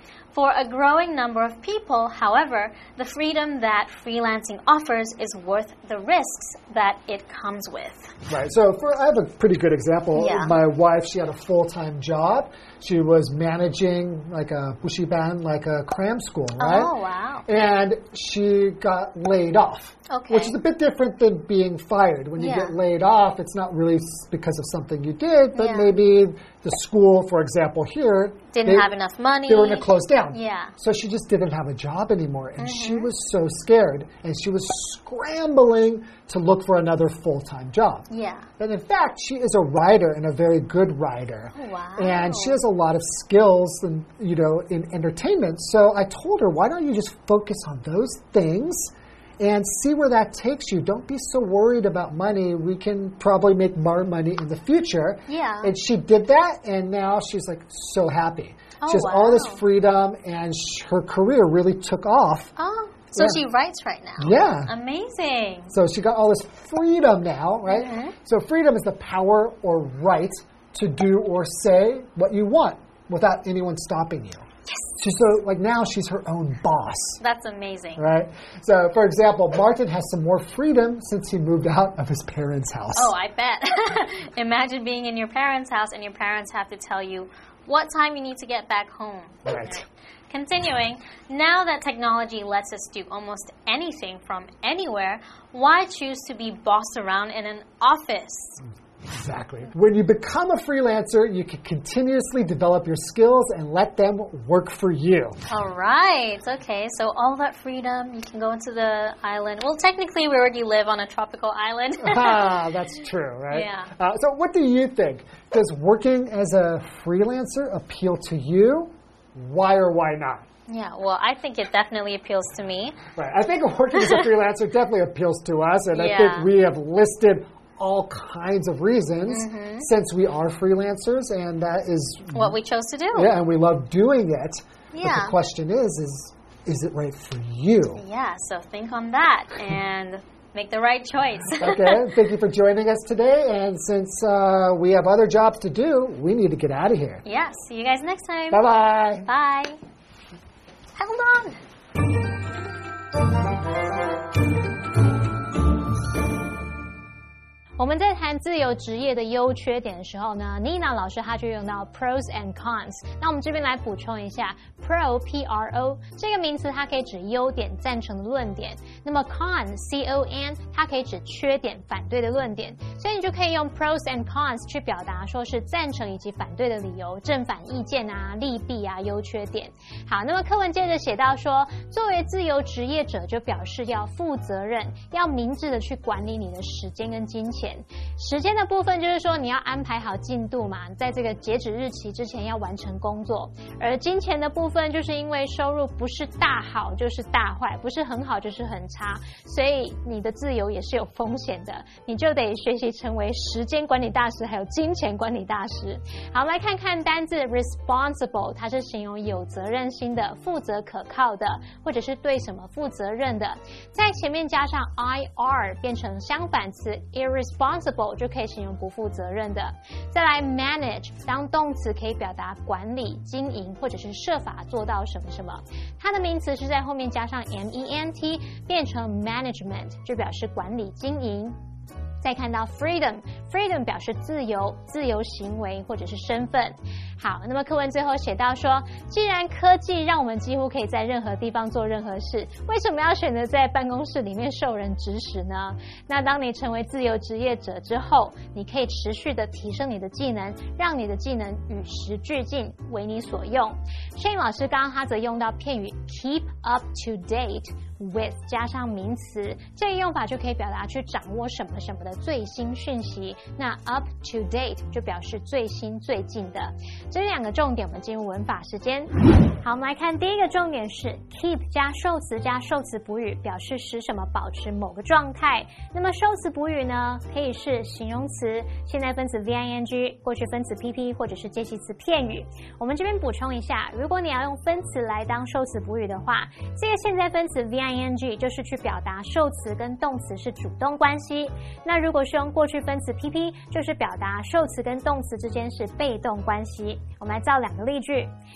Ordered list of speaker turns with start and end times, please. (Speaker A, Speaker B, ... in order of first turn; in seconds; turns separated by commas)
Speaker A: 0.3-8.1, Speaker B: 8.3-16.9, Speaker A: 10.2-10.6, Speaker A: 16.6-17.5, Speaker B: 17.5-28.9, Speaker A: 20.1-20.6, Speaker A: 22.4-22.8, Speaker A: 25.6-25.9, Speaker A: 28.5-30.7, Speaker B: 29.5-38.1, Speaker A: 32.6-33.1, Speaker A: 38.1-38.5, Speaker B: 38.6-62.5, Speaker A: 41.5-42.6, Speaker A: 55.3-55.7, Speaker A: 58.8-59.6, Speaker A: 62.6-65.7, Speaker B: 64.2-64.7, Speaker B: 65.7-74.5, Speaker A: 67.7-68.2, Speaker B: 75.0-77.2, Speaker A: 77.2-78.0, Speaker B: 78.0-83.1, Speaker A: 83.0-98.6, Speaker B: 89.5-89.8, Speaker B: 99.0-105.4, Speaker A: 105.5-112.7, Speaker B: 112.0-120.5, Speaker A: 113.5-113.9, Speaker A: 120.7-123.0, Speaker B: 123.2-132.6, Speaker A: 124.0-124.2, Speaker A: 125.9-126.5, Speaker A: 129.3-129.9, Speaker A: 132.3-133.3, Speaker B: 133.2-138.0, Speaker A: 134.9-135.4, Speaker A: 138.0-142.1, Speaker B: 141.6-147.2, Speaker A: 147.2-148.7, Speaker B: 148.5-149.3, Speaker A: 149.2-149.8, Speaker A: 151.0-151.6, Speaker C: 157.8-231.6, Speaker C: 232.2-298.3